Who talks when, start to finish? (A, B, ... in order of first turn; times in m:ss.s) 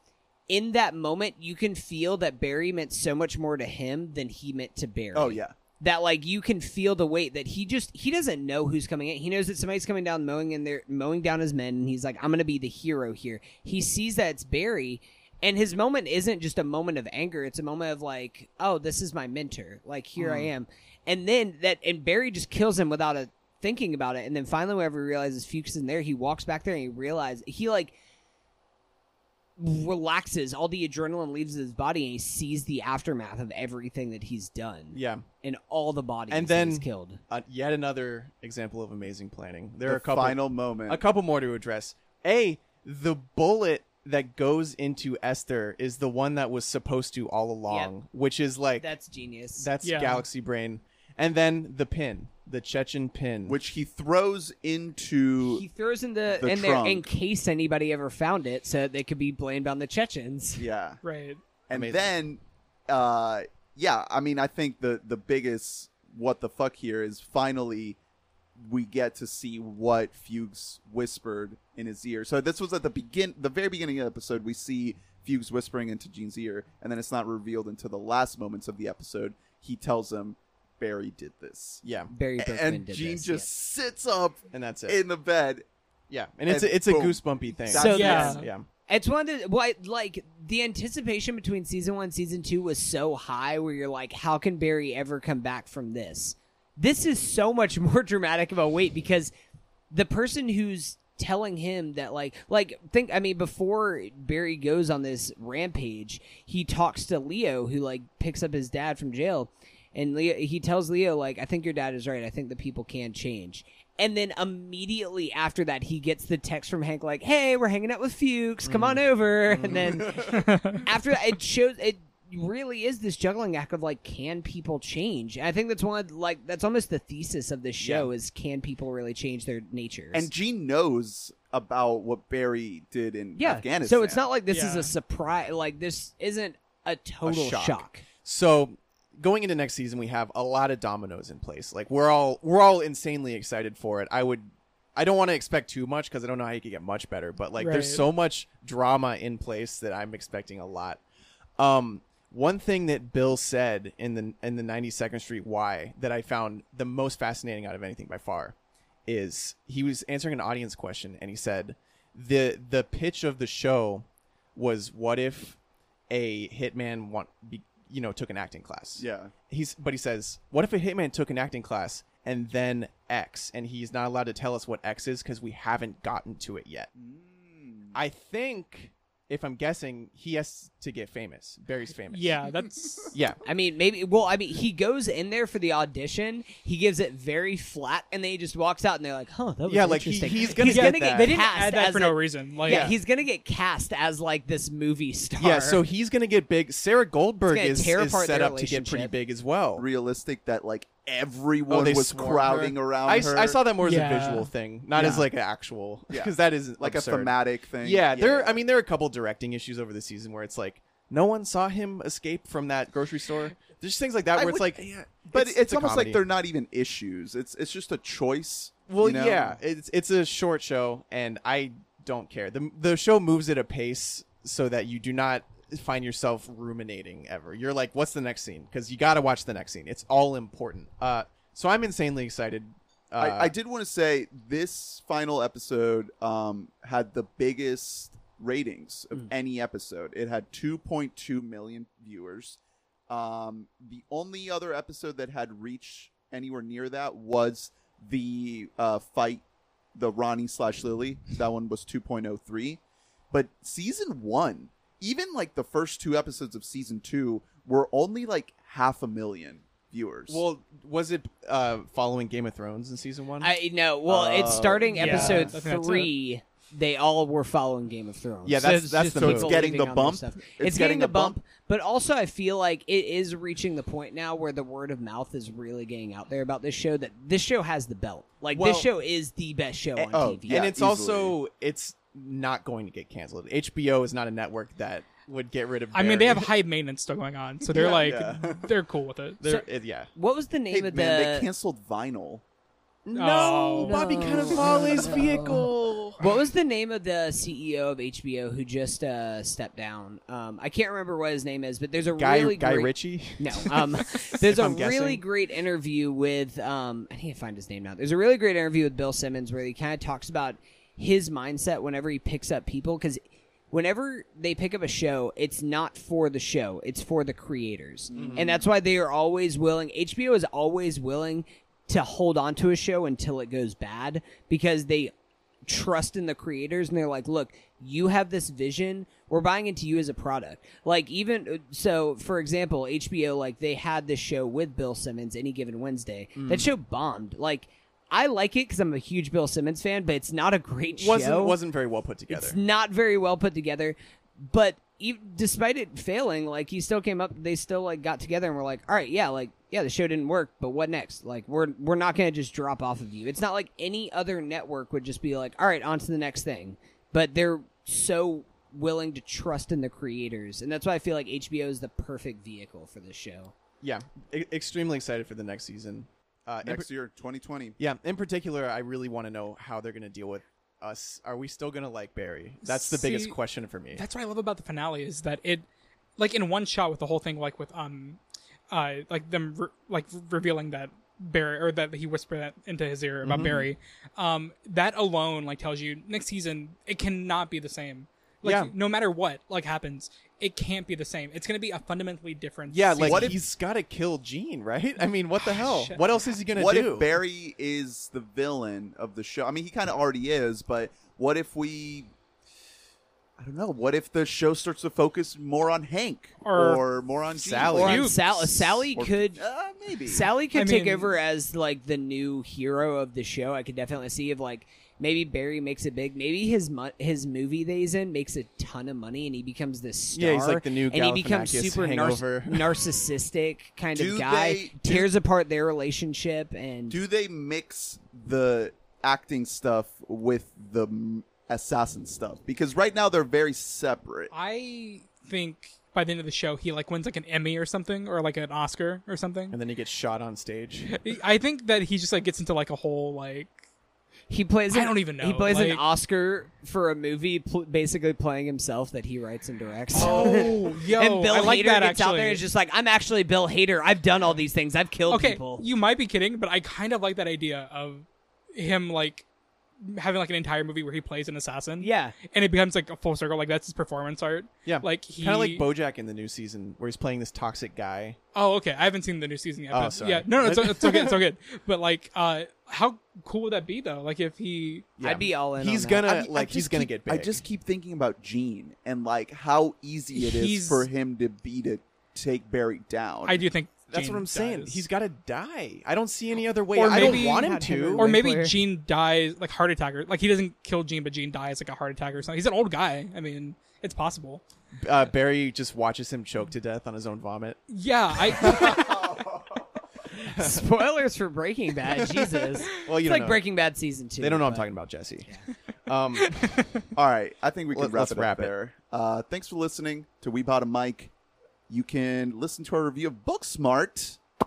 0:00.5-0:28.0 A
0:05.1-0:05.5 B
0:20.2-0:20.5 C
0:29.6-0:37.2 A
0:34.9-0:35.2 C
0:36.3-0:48.9 C
0:39.8-0:41.0 B
0:48.8-0:49.7 A
0:49.6-0:53.6 C
0:49.8-0:50.2 D
0:53.5-0:55.6 B
0:55.4-1:00.6 A
0:56.3-0:57.1 B
1:00.6-1:01.0 B
1:01.0-1:01.4 D
1:01.7-1:08.0 B
1:01.7-1:02.1 C
1:08.6-1:21.8 B
1:21.8-1:22.1 C
1:22.1-1:23.5 A
1:22.4-1:25.6 B
1:24.5-1:25.0 C
1:26.1-1:28.7 C
1:26.5-1:28.4 B
1:27.7-1:39.3 A
1:27.9-1:28.5 D
1:39.9-2:10.3 A
1:58.6-2:00.4 C
2:00.3-2:00.8 D
2:07.8-2:08.1 C
2:10.1-2:14.2 B
2:13.4-2:18.0 A
2:14.5-2:15.0 D
2:17.2-2:31.0 C
2:27.6-2:28.0 D
2:31.6-2:38.5 C
2:39.1-2:45.6 C
2:46.1-2:56.9 C
2:49.0-2:49.3 B
2:56.9-2:58.0 B
2:57.9-3:02.4 C
3:02.1-3:03.1 D
3:03.1-3:03.4 C
3:03.4-3:15.8 A
3:09.7-3:11.4 C
3:10.6-3:12.9 D
3:12.7-3:12.9 B
3:15.4-3:19.8 C
3:17.5-3:19.1 A
3:19.8-3:23.6 B
3:21.7-3:36.2 C
3:23.8-3:24.5 D
3:25.0-3:25.2 B
3:26.1-3:28.6 B
3:34.3-3:39.6 B
3:38.9-3:53.5 C
3:53.2-4:09.4 B
4:09.9-4:20.4 B
4:20.3-4:23.5 C
4:23.4-4:40.6 A
4:24.1-4:25.5 B
4:24.9-4:26.1 D
4:28.4-4:29.6 C
4:29.2-4:31.4 B
4:38.5-4:38.9 C
4:40.0-4:41.3 B
4:40.5-4:46.5 C
4:45.9-4:49.4 D
4:47.7-4:48.7 B
4:49.4-4:50.1 C
4:50.1-4:51.5 A
4:50.7-4:52.4 B
4:53.0-4:56.2 C
4:53.1-4:54.0 D
4:53.8-4:55.6 A
4:56.2-5:25.1 A
5:02.2-5:05.2 C
5:18.1-5:18.4 B
5:18.1-5:18.6 C
5:25.6-5:41.6 A
5:36.4-5:36.7 C
5:41.0-5:42.6 C
5:42.3-6:03.5 A
6:03.8-6:06.9 C
6:06.6-6:07.8 B
6:07.8-6:14.0 C
6:12.6-6:13.4 D
6:14.0-6:15.6 D
6:16.2-6:18.2 D
6:18.7-6:33.3 D
6:23.2-6:23.7 C
6:28.4-6:28.7 C
6:32.7-6:37.2 C
6:33.0-6:33.4 B
6:35.4-6:36.0 D
6:36.5-6:42.1 B
6:43.4-6:48.3 B
6:46.4-6:46.8 D
6:47.3-6:48.8 C
6:47.7-6:49.4 A
6:47.8-6:48.1 D
6:48.9-6:50.3 B
6:50.1-7:07.0 A
6:50.5-6:51.1 D
7:00.1-7:02.8 C
7:03.9-7:05.1 B
7:06.9-7:14.3 B
7:14.3-7:19.6 D
7:19.5-7:20.9 C
7:20.9-7:23.6 D
7:24.3-7:35.6 A
7:24.7-7:25.8 D
7:29.9-7:32.4 D
7:35.1-7:39.2 D
7:39.8-7:45.6 D
7:41.8-7:42.2 A
7:44.6-7:48.2 C
7:48.3-7:54.9 D
7:49.7-7:51.2 C
7:55.0-7:57.4 C
7:55.0-7:56.8 A
7:56.2-8:03.5 B
8:00.1-8:00.9 D
8:03.2-8:04.8 D
8:03.9-8:08.1 C
8:06.8-8:14.4 D
8:06.8-8:08.6 A
8:14.8-8:17.6 C
8:17.7-8:19.0 D
8:18.3-8:18.7 C
8:18.6-8:19.6 B
8:20.2-8:24.7 A
8:20.3-8:20.6 C
8:22.6-8:23.4 C
8:24.2-8:25.3 C
8:25.8-8:26.7 C
8:26.2-8:26.7 D
8:26.9-8:31.1 B
8:27.7-8:28.5 C
8:31.7-8:34.2 B